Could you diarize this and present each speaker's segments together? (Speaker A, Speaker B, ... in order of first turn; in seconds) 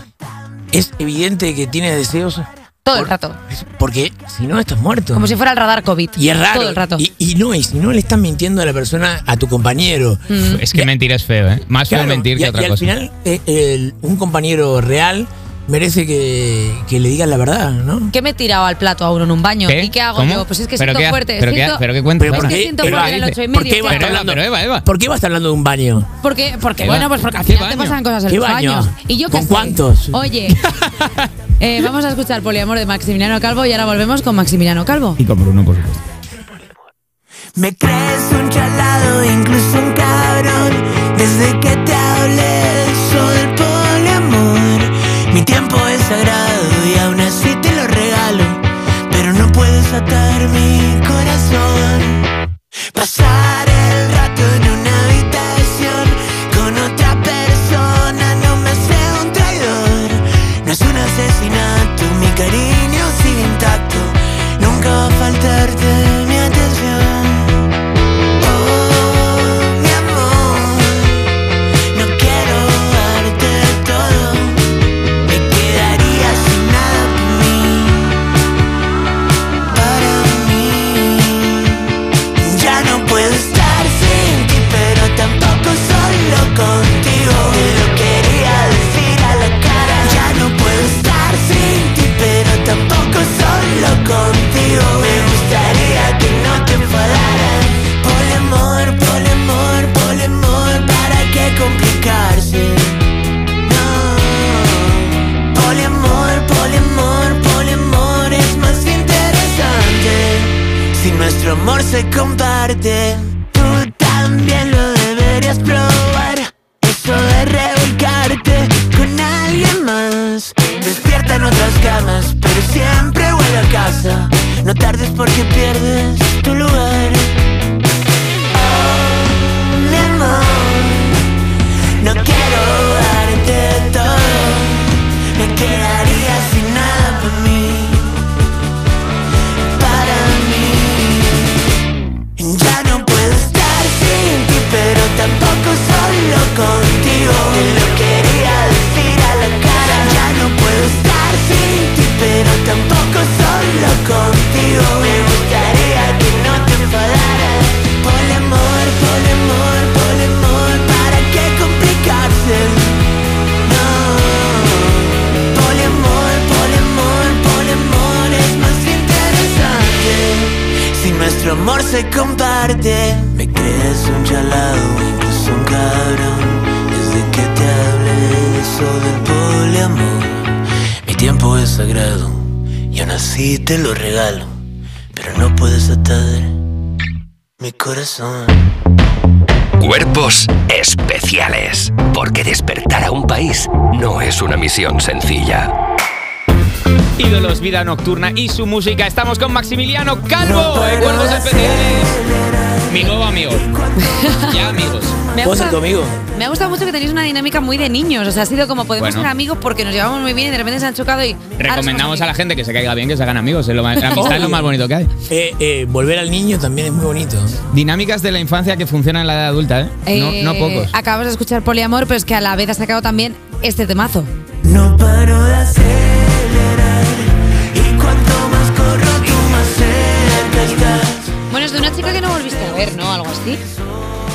Speaker A: 0.7-5.3, 6.2-10.9, 11.9-18.1, 22.2-26.1, 28.3-30.3, 38.0-39.7, 50.7-51.9, 53.0-53.6, 54.2-54.6, 60.9-62.4, 63.2-64.0, 65.0-66.6, 70.0-70.5, 75.7-75.9, 82.5-87.2, 88.6-101.5, 102.1-102.7, 106.1-108.2, 109.2-110.2, 111.0-111.4, 112.7-113.0, 113.6-115.1, 119.6-120.0, 120.9-127.2, 128.6-129.2, 129.8-130.5, 132.8-134.0, 135.5-137.4, 139.8-141.1, 142.4-162.8, 164.0-164.3, 165.6-170.4, 171.9-172.8, 177.2-177.5, 181.1-182.1, 200.4-201.3, 205.4-206.2, 214.1-214.7, 215.3-217.6, 225.0-226.1, 227.8-231.2
Speaker B: 2.9-3.4, 5.1-7.1, 10.3-10.7, 18.1-24.2, 26.2-30.6, 31.6-35.2, 204.0-204.6, 205.3-205.8, 206.3-212.3, 214.1-214.5, 220.1-224.3, 231.4-233.6
Speaker C: 10.4-12.9, 19.7-23.3, 23.9-24.9, 26.8-28.0, 30.5-31.3, 35.2-36.0, 197.2-202.2, 202.9-203.7, 204.4-205.2, 209.0-209.3, 211.6-215.1, 217.7-220.9
Speaker D: 37.6-48.6, 49.1-52.2, 53.0-67.6, 68.4-71.3, 71.9-74.6, 75.3-78.2, 79.7-81.9, 82.4-95.5, 96.2-103.0, 103.7-127.2, 128.6-131.2, 132.0-138.2, 139.8-141.5, 142.4-150.2, 151.0-158.6, 159.2-163.0, 163.7-180.5, 181.1-184.5, 185.2-186.5, 187.6-188.5, 224.7-227.0, 227.8-230.7
Speaker E: 190.3-195.7